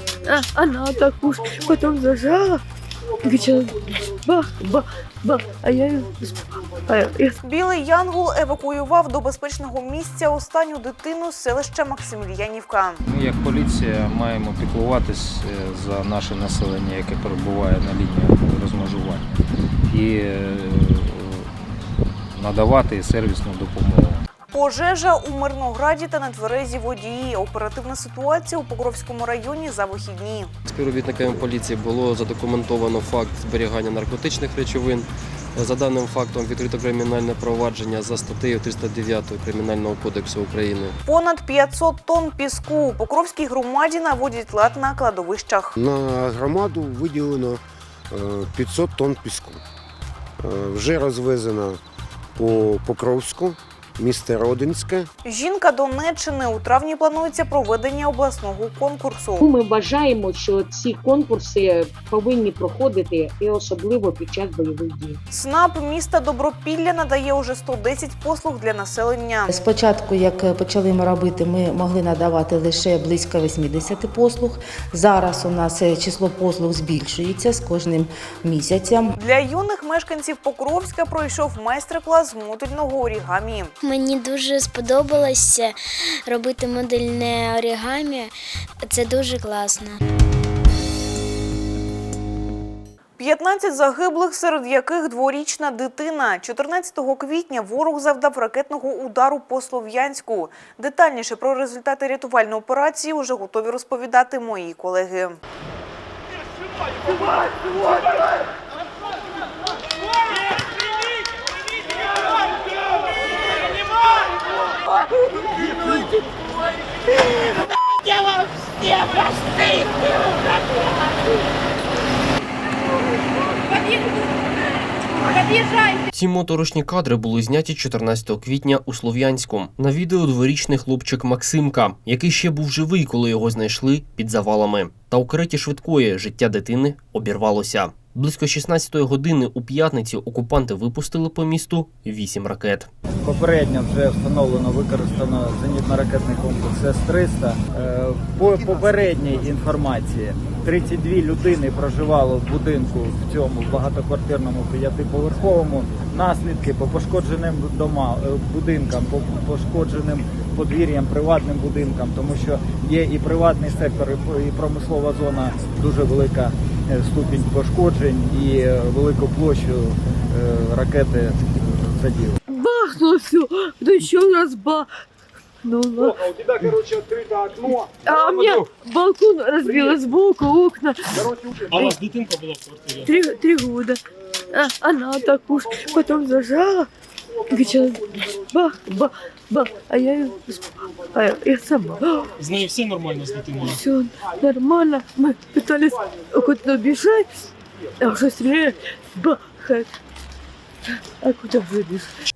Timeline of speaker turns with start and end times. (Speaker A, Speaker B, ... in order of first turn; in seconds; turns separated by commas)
Speaker A: 0.2-2.6, Speaker A: 3.2-7.3, Speaker B: 7.4-13.0, Speaker C: 13.0-19.4, Speaker C: 19.9-21.5, Speaker C: 22.3-24.2, Speaker B: 24.5-30.5, Speaker D: 30.6-41.0, Speaker B: 41.0-45.8, Speaker E: 45.8-49.6, Speaker E: 50.4-51.8, Speaker E: 52.4-55.1, Speaker B: 55.2-59.4, Speaker F: 59.6-65.1, Speaker B: 65.3-69.5, Speaker G: 69.5-79.1, Speaker B: 79.2-83.7, Speaker H: 83.8-90.0, Speaker B: 93.2-105.4, Speaker I: 126.1-142.9, Speaker J: 143.2-172.4, Speaker A: 172.5-174.9, Speaker A: 175.6-176.2, Speaker A: 177.6-182.0, Speaker K: 181.8-183.1, Speaker A: 183.0-184.0, Speaker A: 184.5-186.9, Speaker A: 187.5-192.3, Speaker K: 192.4-193.8, Speaker A: 193.6-199.9, Speaker A: 201.2-202.1